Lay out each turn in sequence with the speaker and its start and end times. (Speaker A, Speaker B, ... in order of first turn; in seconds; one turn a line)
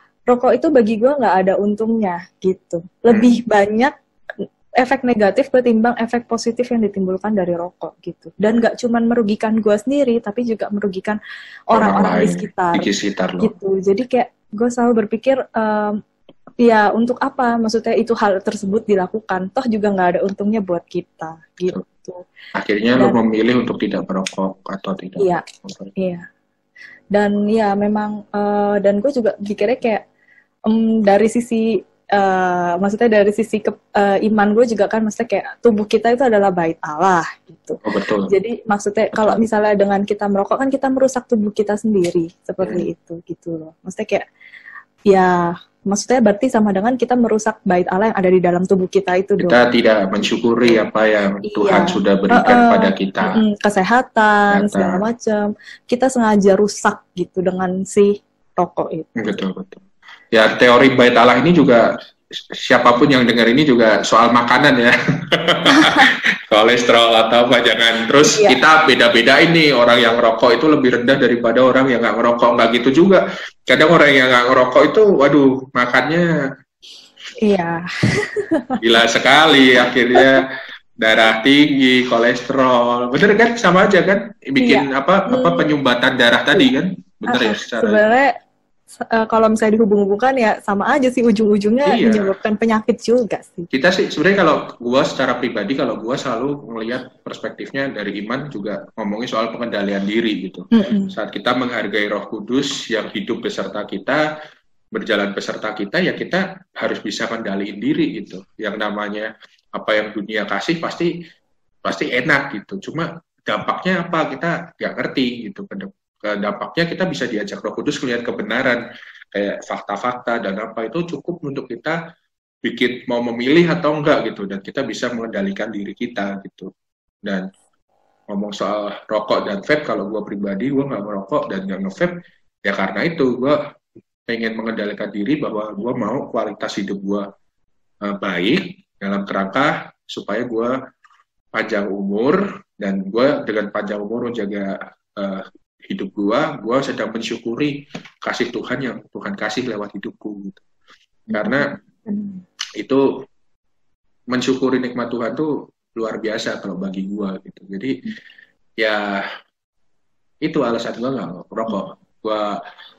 Speaker A: 0.3-11.2
Speaker B: 3.1-3.4
Speaker A: 11.7-12.9
Speaker B: 11.7-13.5
Speaker A: 13.4-16.0
Speaker A: 16.6-22.2
Speaker B: 22.5-25.9
Speaker A: 25.2-25.4
Speaker A: 25.9-26.2
Speaker A: 27.1-30.0
Speaker A: 30.7-44.2
Speaker B: 37.8-38.3
Speaker B: 42.6-42.9
Speaker A: 45.1-49.6
Speaker B: 49.4-53.4
Speaker A: 51.5-59.1
Speaker B: 54.5-55.0
Speaker B: 59.1-61.9
Speaker B: 62.5-76.3
Speaker A: 68.3-68.6
Speaker A: 77.4-78.8
Speaker B: 78.8-80.5
Speaker A: 80.1-80.4
Speaker B: 81.0-88.0
Speaker A: 84.6-85.7
Speaker A: 87.3-88.3
Speaker A: 89.0-93.7
Speaker B: 91.8-92.3
Speaker B: 93.7-104.2
Speaker A: 100.7-101.1
Speaker B: 104.9-111.1
Speaker B: 111.8-122.0
Speaker B: 122.6-126.7
Speaker B: 128.3-133.6
Speaker B: 134.3-137.3
Speaker B: 138.0-140.8
Speaker B: 141.5-150.6
Speaker A: 151.3-152.4
Speaker B: 151.3-151.8
Speaker B: 152.8-153.2
Speaker B: 154.3-158.0
Speaker B: 158.8-159.2
Speaker B: 160.4-162.5